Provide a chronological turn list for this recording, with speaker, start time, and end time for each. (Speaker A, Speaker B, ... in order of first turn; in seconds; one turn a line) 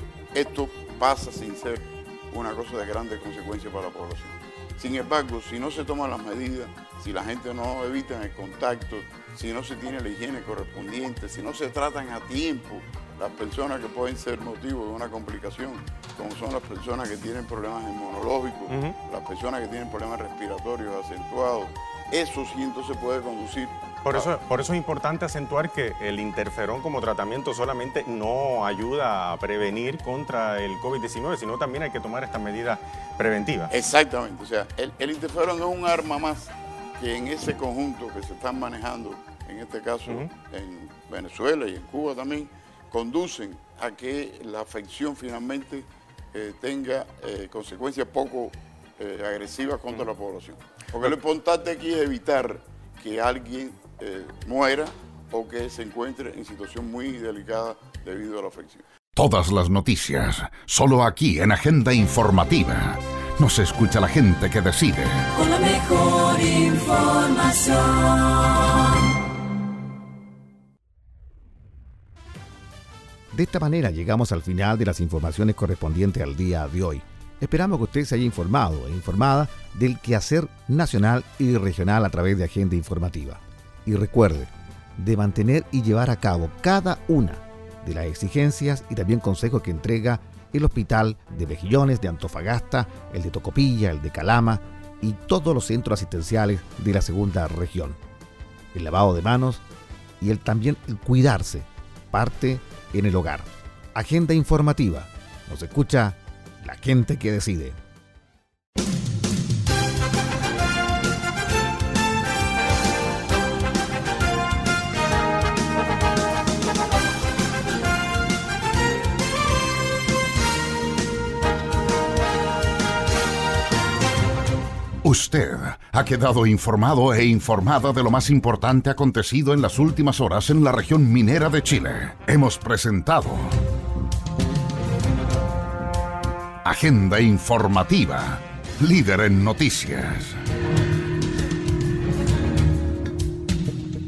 Speaker A: 0.3-24.3
Speaker B: 18.7-18.9
Speaker B: 24.0-33.7
Speaker A: 33.7-58.8
Speaker C: 59.2-65.3
Speaker D: 65.3-68.8
Speaker E: 73.3-98.0
Speaker E: 98.7-99.6
Speaker E: 100.2-107.8
Speaker C: 125.0-133.5
Speaker C: 136.6-140.4